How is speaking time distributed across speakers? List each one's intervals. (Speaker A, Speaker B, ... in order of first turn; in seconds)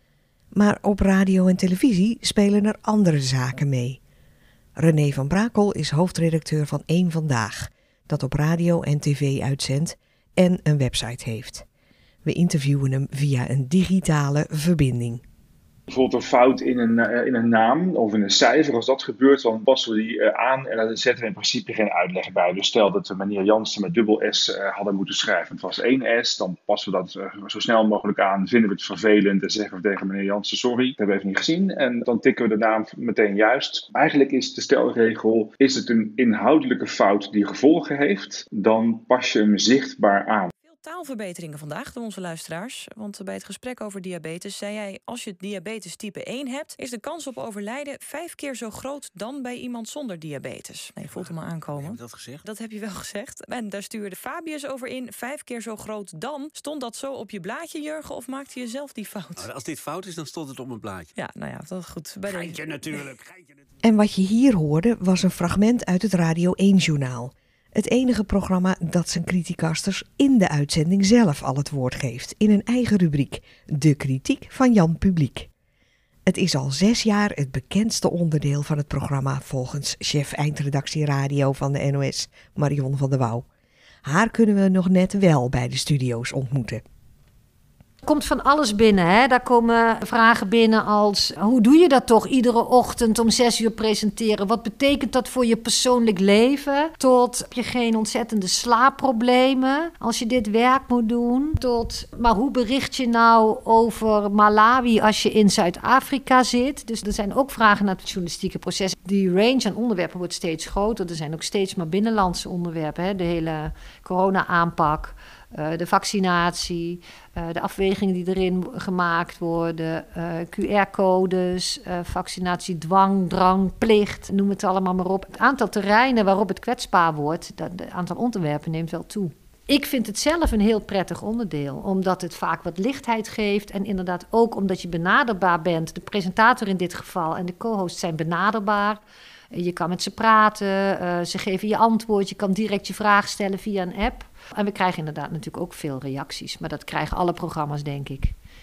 Speaker A: 0.5-4.0, 4.8-11.6, 12.2-15.2, 63.8-75.5, 76.2-83.5, 84.0-86.8
Speaker B: 15.9-40.5
Speaker C: 40.7-59.5, 61.1-63.0
Speaker D: 51.0-52.4, 59.4-61.1, 62.3-63.6
Speaker E: 88.0-148.3